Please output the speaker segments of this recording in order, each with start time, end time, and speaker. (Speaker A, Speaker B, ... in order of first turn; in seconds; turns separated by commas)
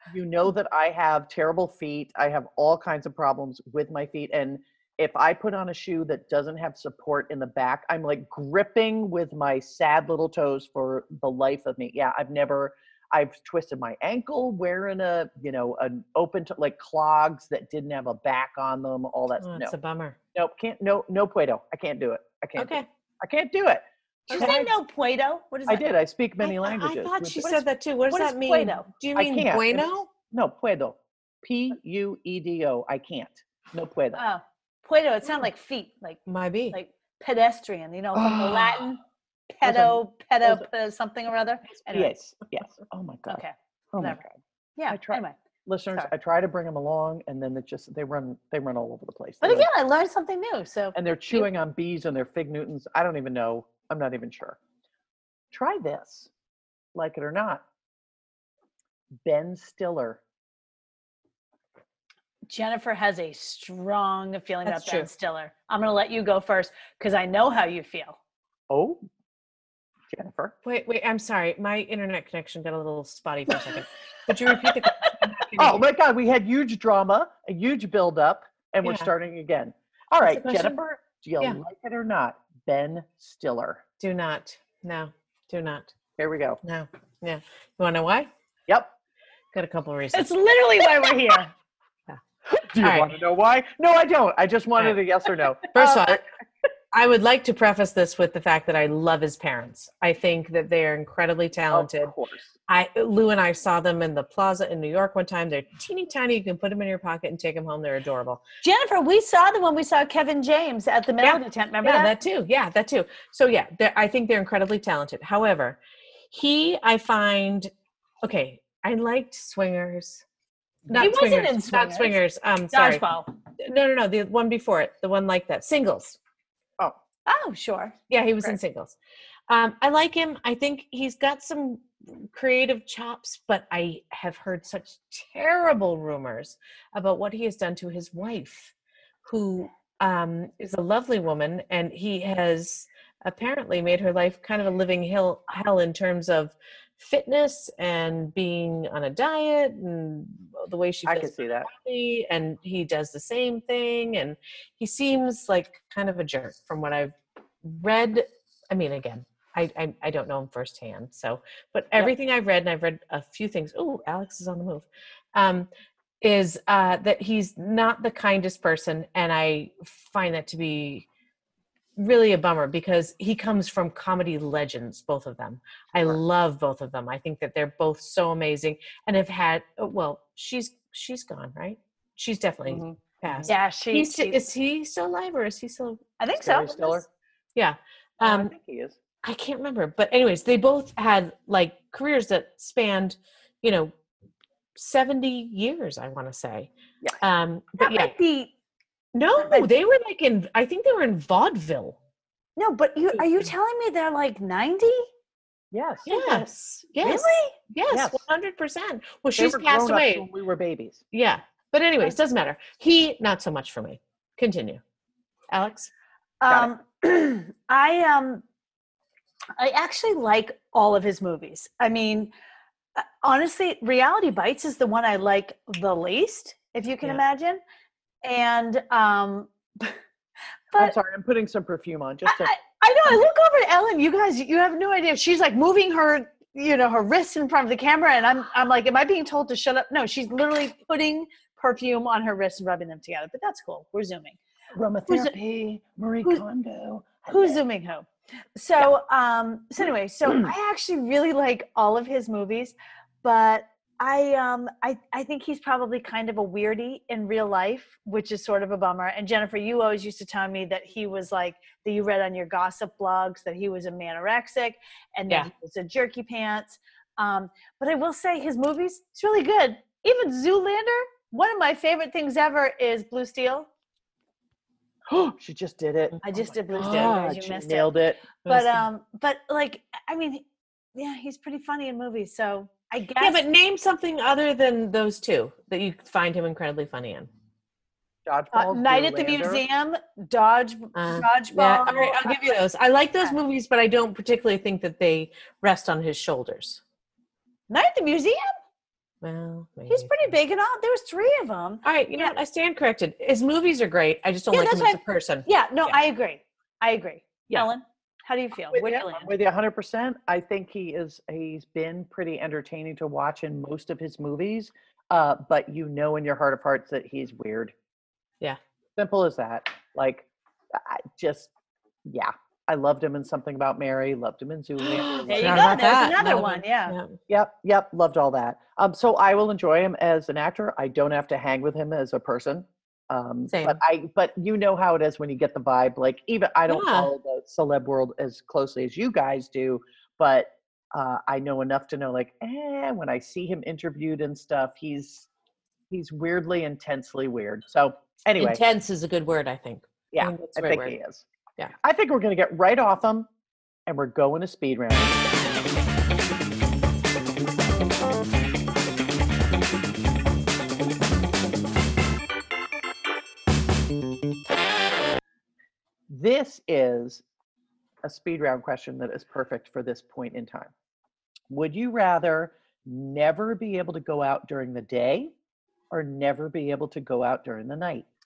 Speaker A: 0.1-19.7, Speaker B: 19.4-20.2, Speaker A: 20.3-24.7, Speaker B: 22.6-22.9, Speaker B: 24.3-24.6, Speaker C: 24.3-25.8, Speaker A: 25.7-27.6, Speaker B: 26.4-30.1, Speaker C: 28.1-28.9, Speaker A: 29.1-34.2, Speaker C: 34.1-36.2, Speaker B: 36.3-36.8, Speaker C: 36.7-39.0, Speaker A: 38.1-38.8, Speaker C: 39.5-42.1, Speaker A: 39.6-40.6, Speaker A: 41.8-43.4, Speaker C: 43.3-44.2, Speaker A: 43.9-44.3, Speaker C: 44.8-45.3, Speaker A: 44.9-49.7, Speaker C: 49.4-51.5, Speaker A: 50.9-54.6, Speaker A: 55.5-56.3, Speaker A: 56.9-57.6, Speaker A: 59.2-60.2, Speaker C: 62.5-68.2, Speaker B: 64.7-65.1, Speaker A: 68.7-69.0, Speaker A: 70.1-70.5, Speaker B: 70.6-75.8, Speaker A: 75.6-83.8, Speaker B: 78.8-79.1, Speaker B: 80.2-80.8, Speaker B: 84.0-85.9, Speaker A: 86.2-86.6, Speaker B: 86.6-88.3, Speaker B: 89.5-90.3, Speaker C: 90.1-91.5, Speaker A: 92.5-96.2, Speaker B: 92.8-93.1, Speaker B: 95.7-96.2, Speaker B: 96.9-102.1, Speaker A: 101.7-102.5, Speaker B: 102.7-108.4, Speaker C: 108.6-112.1, Speaker B: 111.2-115.8, Speaker B: 116.3-117.7, Speaker B: 118.2-120.2, Speaker B: 120.9-123.0, Speaker C: 120.9-122.2, Speaker C: 122.7-123.3, Speaker B: 123.6-126.2, Speaker C: 127.3-127.9, Speaker B: 128.1-128.9, Speaker B: 129.5-138.7, Speaker B: 139.2-165.7, Speaker A: 151.1-151.7, Speaker B: 166.2-171.1, Speaker B: 171.9-186.0, Speaker A: 182.7-183.5, Speaker C: 183.4-184.4, Speaker C: 186.2-187.0, Speaker A: 186.4-187.0, Speaker B: 187.6-188.5, Speaker A: 188.2-189.0, Speaker B: 189.2-193.9, Speaker B: 194.8-198.1, Speaker C: 197.8-198.5, Speaker B: 199.1-202.0, Speaker C: 199.4-199.7, Speaker C: 202.6-205.1, Speaker A: 205.7-206.1, Speaker C: 206.1-206.5, Speaker B: 206.1-210.2, Speaker C: 207.0-207.6, Speaker A: 207.9-208.2, Speaker A: 209.4-211.0, Speaker B: 211.1-214.8, Speaker B: 215.5-215.9, Speaker C: 216.4-218.4, Speaker C: 219.6-222.3, Speaker C: 222.9-227.6, Speaker C: 228.2-230.0, Speaker A: 230.7-232.5, Speaker C: 232.2-244.4, Speaker A: 244.7-247.6, Speaker C: 245.1-245.3, Speaker C: 247.3-273.7, Speaker A: 250.3-250.5, Speaker A: 275.1-278.2, Speaker C: 276.2-280.4, Speaker B: 276.7-277.3, Speaker B: 278.4-278.9, Speaker C: 280.9-283.4, Speaker B: 283.2-287.3, Speaker A: 288.2-289.6, Speaker C: 288.5-292.5, Speaker B: 290.9-296.8, Speaker C: 297.7-298.6, Speaker B: 299.2-300.3, Speaker C: 299.9-302.3, Speaker B: 301.8-305.9, Speaker C: 304.5-309.3, Speaker A: 308.7-317.7, Speaker A: 318.9-321.5, Speaker A: 322.0-325.9, Speaker B: 324.8-327.2, Speaker C: 325.2-326.9, Speaker A: 327.3-345.3, Speaker B: 333.5-333.8, Speaker B: 336.7-337.1, Speaker A: 345.9-348.6, Speaker B: 348.4-350.9, Speaker A: 350.1-351.2, Speaker A: 351.8-353.3, Speaker A: 353.9-355.2, Speaker A: 366.1-367.2, Speaker A: 368.0-370.7, Speaker A: 371.5-375.3, Speaker A: 375.9-378.1